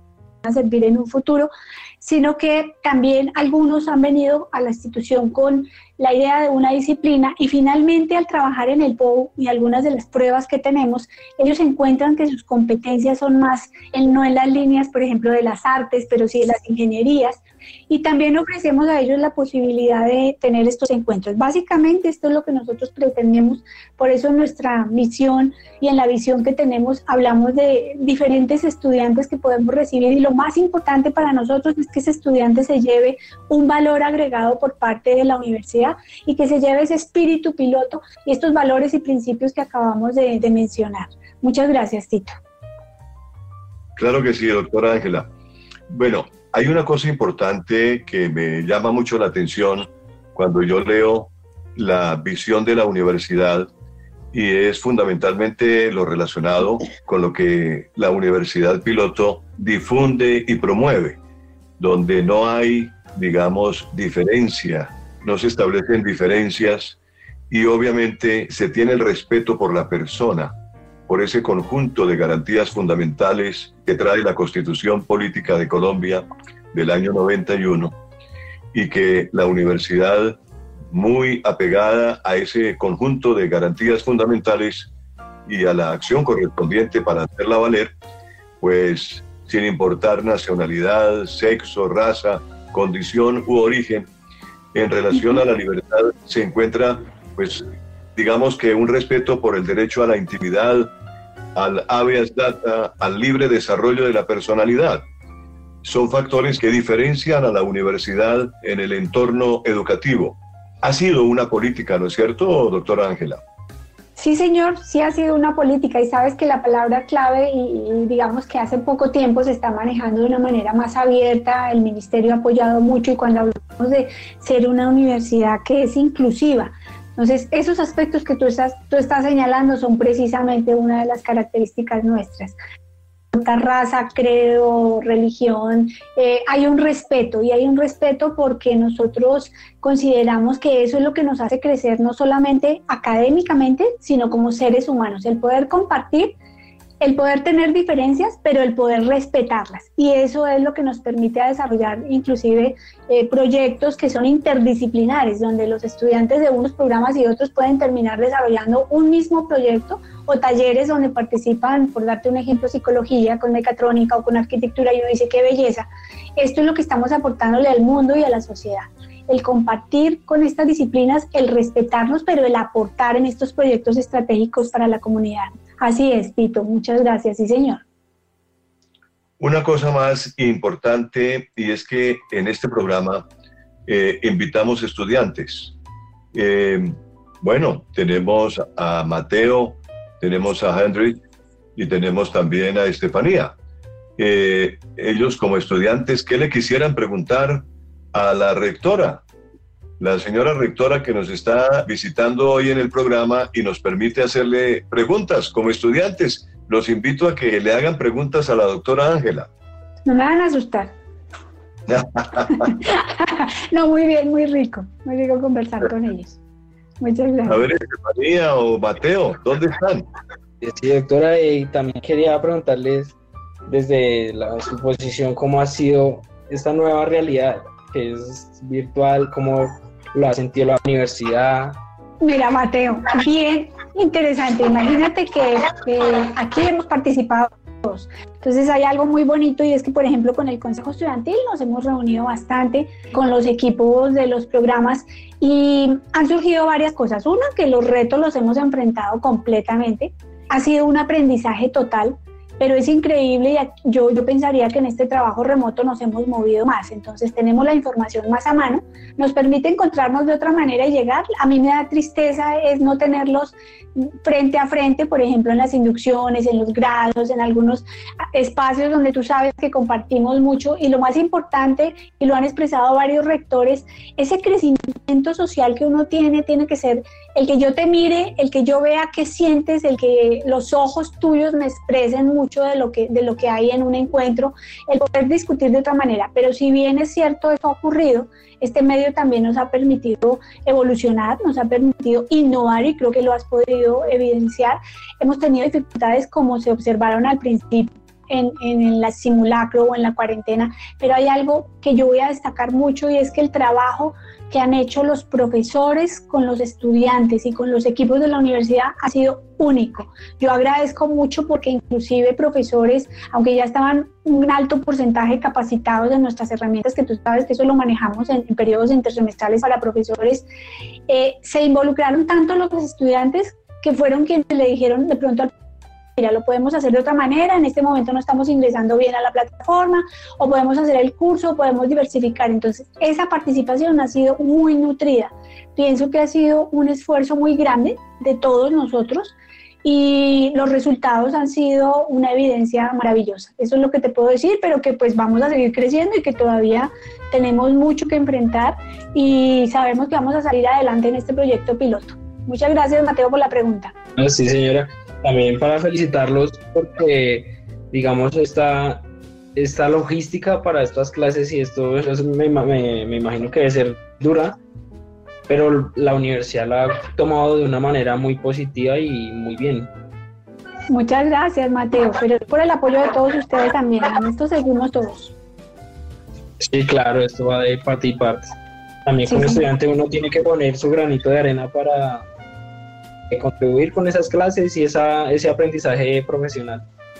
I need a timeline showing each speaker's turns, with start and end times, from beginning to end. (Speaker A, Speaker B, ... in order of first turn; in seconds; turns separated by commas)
Speaker A: 0.4-42.3, Speaker B: 44.0-45.3, Speaker B: 45.9-53.7, Speaker B: 54.3-61.2, Speaker B: 61.8-67.0, Speaker B: 67.5-70.5, Speaker B: 71.1-78.0, Speaker B: 78.7-80.4, Speaker B: 80.9-84.9, Speaker B: 85.5-87.9, Speaker B: 88.6-94.1, Speaker B: 94.7-100.9, Speaker B: 101.5-105.0, Speaker B: 105.8-113.4, Speaker A: 114.2-132.6, Speaker A: 133.3-146.3, Speaker A: 147.0-177.8, Speaker B: 179.4-183.2, Speaker B: 183.8-185.7, Speaker B: 186.3-191.2, Speaker B: 191.8-193.5, Speaker B: 194.2-199.2, Speaker B: 200.0-209.5, Speaker A: 210.1-210.9, Speaker B: 211.9-212.7, Speaker A: 212.5-216.4, Speaker A: 217.0-217.6, Speaker B: 217.4-220.1, Speaker C: 220.6-223.1, Speaker C: 223.7-231.8, Speaker A: 232.2-320.4, Speaker A: 321.1-325.5, Speaker A: 326.2-353.9, Speaker C: 354.2-359.0, Speaker C: 359.6-364.6, Speaker C: 365.5-369.9, Speaker A: 370.9-375.3, Speaker C: 376.6-378.5, Speaker C: 379.1-382.2, Speaker A: 379.2-379.6, Speaker C: 383.3-386.8